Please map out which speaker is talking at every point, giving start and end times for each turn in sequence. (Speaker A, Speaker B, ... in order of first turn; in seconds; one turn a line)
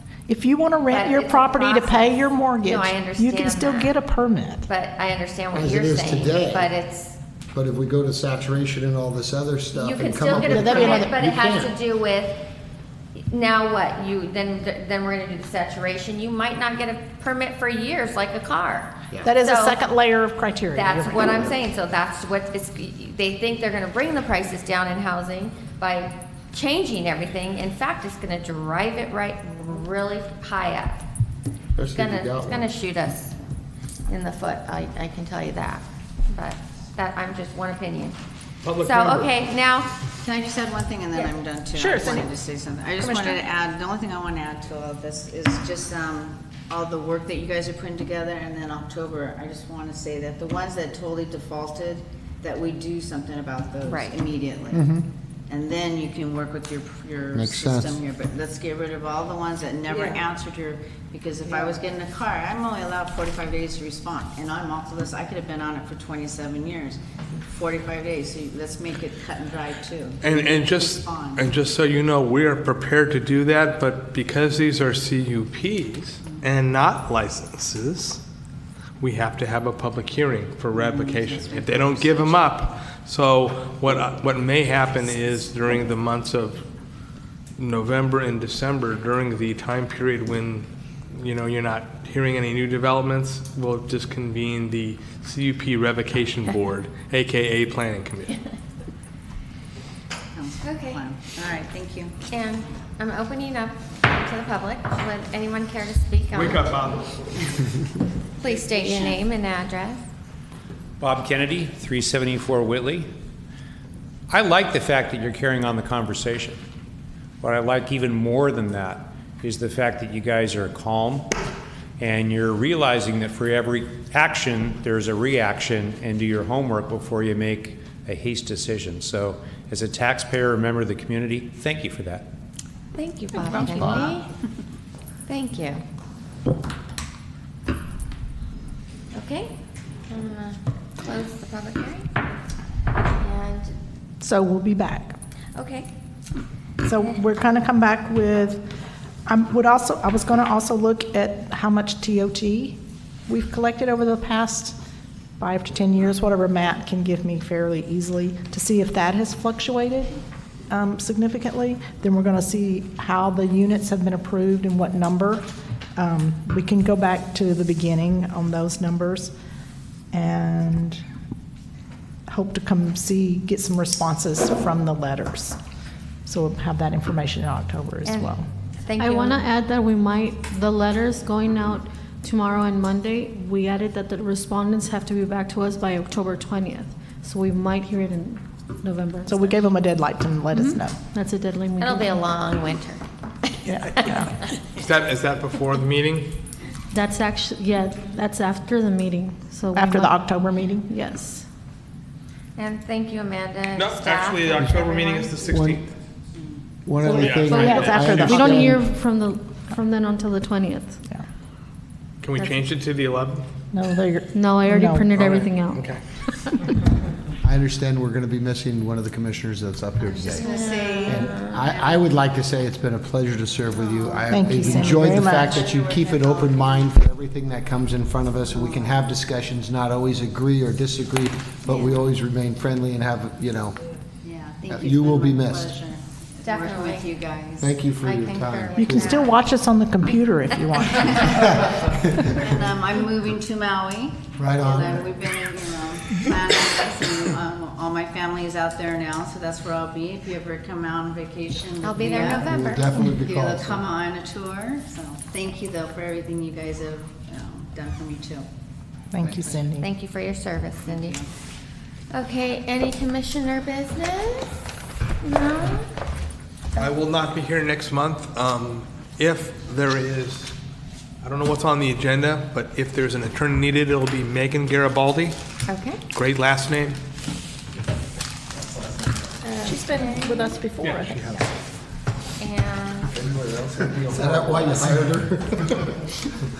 Speaker A: 0.3-4.7
Speaker B: 0.9-4.0
Speaker B: 4.7-7.2
Speaker C: 5.5-6.7
Speaker C: 7.5-11.7
Speaker B: 9.7-12.4
Speaker A: 10.3-11.2
Speaker B: 13.3-19.8
Speaker A: 19.2-21.5
Speaker B: 20.7-31.0
Speaker C: 31.8-32.7
Speaker B: 31.9-33.3
Speaker B: 34.1-38.2
Speaker D: 38.6-39.3
Speaker B: 38.8-39.9
Speaker E: 40.2-54.8
Speaker A: 41.8-42.3
Speaker A: 43.0-43.4
Speaker B: 53.8-54.1
Speaker C: 54.7-55.0
Speaker E: 55.5-71.5
Speaker C: 57.4-57.9
Speaker D: 70.2-78.2
Speaker D: 79.0-86.6
Speaker E: 80.7-82.6
Speaker D: 87.6-98.4
Speaker E: 100.3-102.1
Speaker B: 100.6-101.0
Speaker B: 102.3-106.7
Speaker D: 106.3-107.4
Speaker B: 108.4-110.0
Speaker E: 108.4-109.2
Speaker F: 111.0-113.1
Speaker F: 114.3-116.6
Speaker F: 117.4-121.3
Speaker F: 122.0-132.3
Speaker B: 132.9-134.3
Speaker C: 133.6-134.1
Speaker B: 135.3-135.8
Speaker B: 139.1-139.5
Speaker B: 140.1-142.1
Speaker B: 143.1-143.8
Speaker A: 144.2-145.2
Speaker B: 145.5-145.9
Speaker A: 146.8-148.6
Speaker A: 149.2-154.8
Speaker A: 155.4-160.2
Speaker A: 160.7-169.3
Speaker A: 170.1-171.0
Speaker A: 172.3-175.6
Speaker A: 176.2-178.5
Speaker B: 178.0-179.4
Speaker G: 179.0-189.6
Speaker A: 189.3-191.1
Speaker G: 190.7-192.2
Speaker B: 191.8-193.0
Speaker B: 193.7-194.2
Speaker A: 193.7-194.4
Speaker D: 194.8-196.3
Speaker G: 196.9-201.4
Speaker A: 199.8-200.9
Speaker B: 202.6-205.3
Speaker D: 203.8-205.9
Speaker C: 205.5-205.8
Speaker E: 206.3-206.6
Speaker C: 206.8-208.8
Speaker A: 207.0-208.4
Speaker D: 207.1-208.5
Speaker G: 208.2-211.0
Speaker D: 212.2-213.4
Speaker G: 212.3-212.7
Speaker A: 213.7-215.1
Speaker G: 214.3-216.7
Speaker D: 215.1-216.0
Speaker C: 217.4-233.8
Speaker E: 220.2-222.1
Speaker B: 220.3-221.6
Speaker E: 223.8-226.9
Speaker A: 224.3-225.5
Speaker E: 228.5-229.0
Speaker E: 234.2-237.8
Speaker C: 234.7-235.8
Speaker B: 236.4-237.1
Speaker C: 237.6-239.2
Speaker B: 238.0-239.4
Speaker A: 238.8-241.4
Speaker E: 241.2-241.6
Speaker C: 241.6-242.5
Speaker E: 242.3-258.5
Speaker C: 244.4-245.1
Speaker B: 251.8-252.9
Speaker C: 252.2-253.8
Speaker A: 259.1-259.9
Speaker B: 259.6-261.2
Speaker E: 260.8-261.3
Speaker B: 262.1-264.5
Speaker B: 265.2-265.9
Speaker D: 266.8-270.5
Speaker D: 271.2-275.4
Speaker B: 275.7-276.0
Speaker D: 276.1-277.0
Speaker A: 279.4-281.5
Speaker B: 279.6-280.6
Speaker D: 280.8-281.4
Speaker B: 282.4-283.1
Speaker C: 283.1-286.1